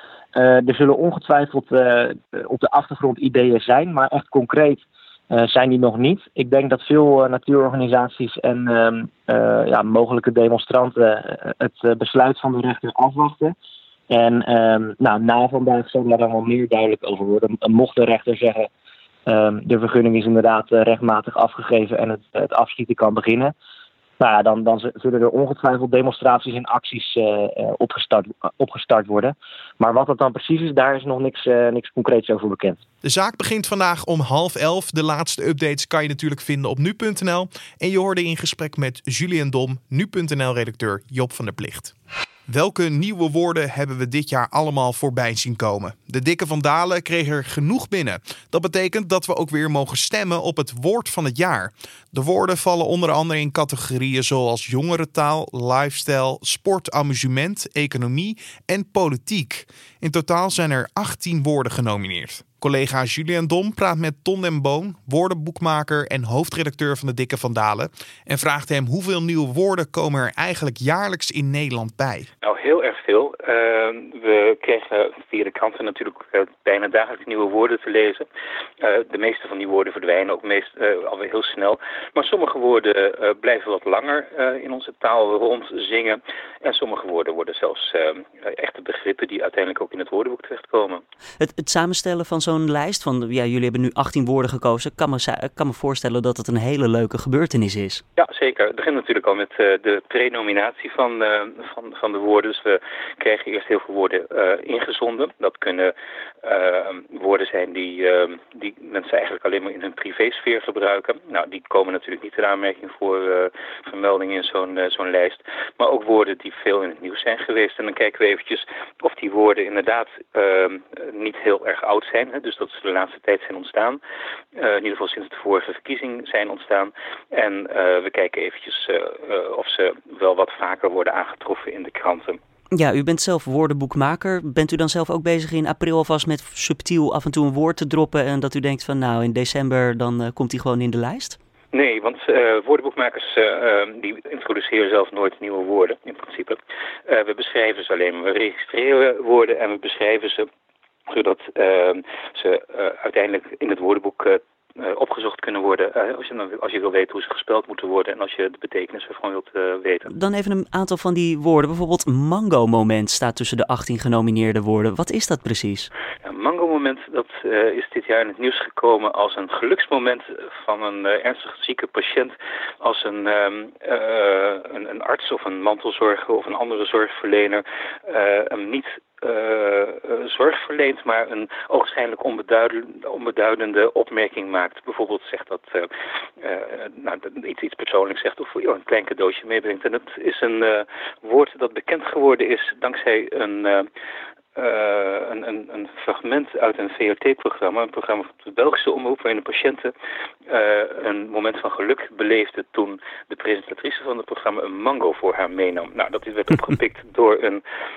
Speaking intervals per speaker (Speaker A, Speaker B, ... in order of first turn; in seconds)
Speaker A: 0.3-13.5, 14.1-18.7, 19.2-23.5, 24.2-32.8
Speaker B: 33.0-41.9, 42.5-72.3
Speaker C: 72.4-78.2, 78.8-91.0, 98.2-124.0, 124.5-132.4, 141.7-150.5, 151.1-160.1, 166.2-185.9, 186.4-193.9, 194.6-199.9, 200.5-207.6
Speaker D: 91.4-98.0, 132.7-141.4, 160.1-165.9